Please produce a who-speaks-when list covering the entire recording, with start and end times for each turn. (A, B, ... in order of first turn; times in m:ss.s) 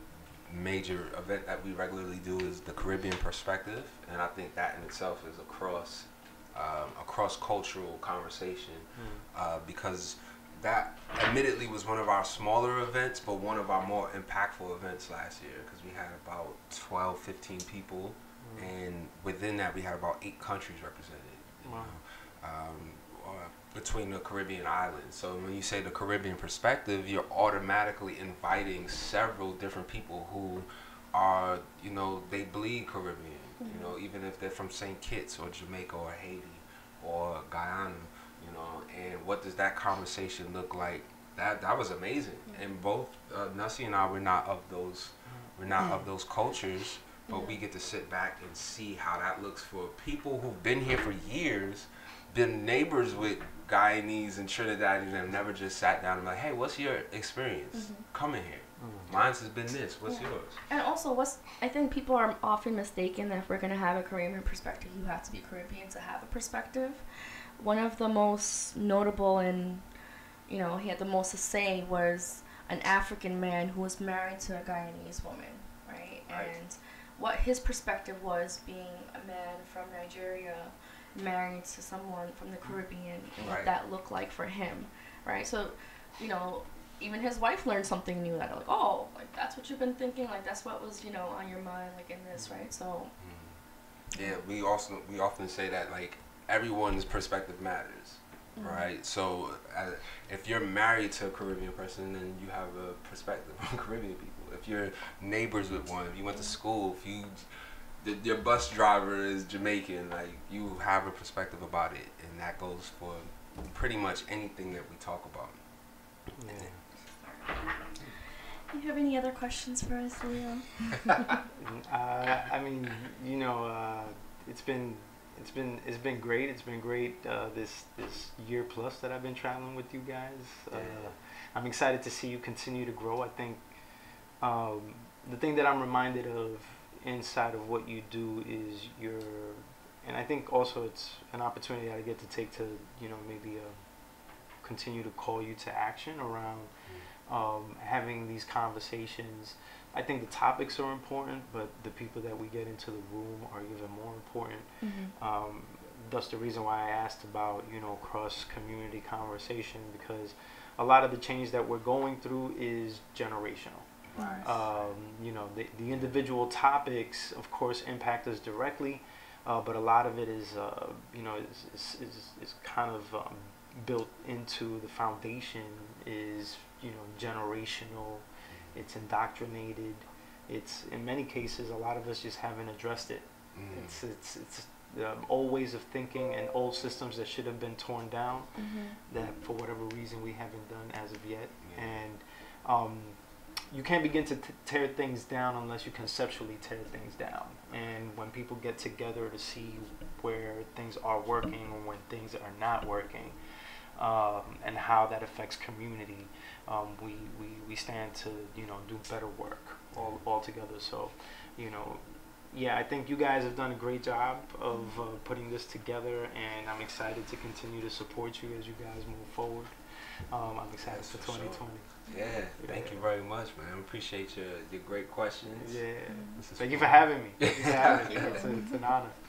0:00.5-1:00.6 A
0:09.0-0:09.2 B
0:18.4-0:18.7 B
0:21.6-0:21.9 B
0:33.6-0:33.9 C
0:47.3-0:47.6 C
0:57.7-0:58.0 C
0:58.8-0:59.1 B
1:00.1-1:07.0 C
1:07.6-1:09.8 C
1:10.5-1:33.1 C
1:16.3-1:16.5 A
1:23.4-1:23.7 A
1:33.2-1:33.6 A
1:34.1-1:34.4 C
1:34.1-1:47.5 A
1:38.6-1:38.9 C
1:48.0-1:55.6 A
1:56.4-1:56.8 B
1:56.9-1:57.9 C
1:58.7-2:01.4 C
2:01.6-2:13.6 B
2:10.7-2:11.1 A
2:14.4-2:23.8 B
2:24.6-2:26.7 B
2:27.3-2:43.9 B
2:34.8-2:35.1 C
2:44.1-2:44.6 A
2:44.2-2:44.5 C
2:44.4-3:08.5 B
3:03.5-3:04.0 A
3:08.6-3:09.0 C
3:09.1-3:13.2 B
3:11.6-3:12.0 A
3:13.7-3:23.4 B
3:24.0-3:39.7 B
3:29.9-3:30.2 A
3:40.3-3:41.9 B
3:40.8-3:45.8 A
3:42.6-3:43.0 B
3:45.6-3:49.2 B
3:46.1-3:46.4 C
3:46.4-3:48.4 A
3:47.8-3:48.8 C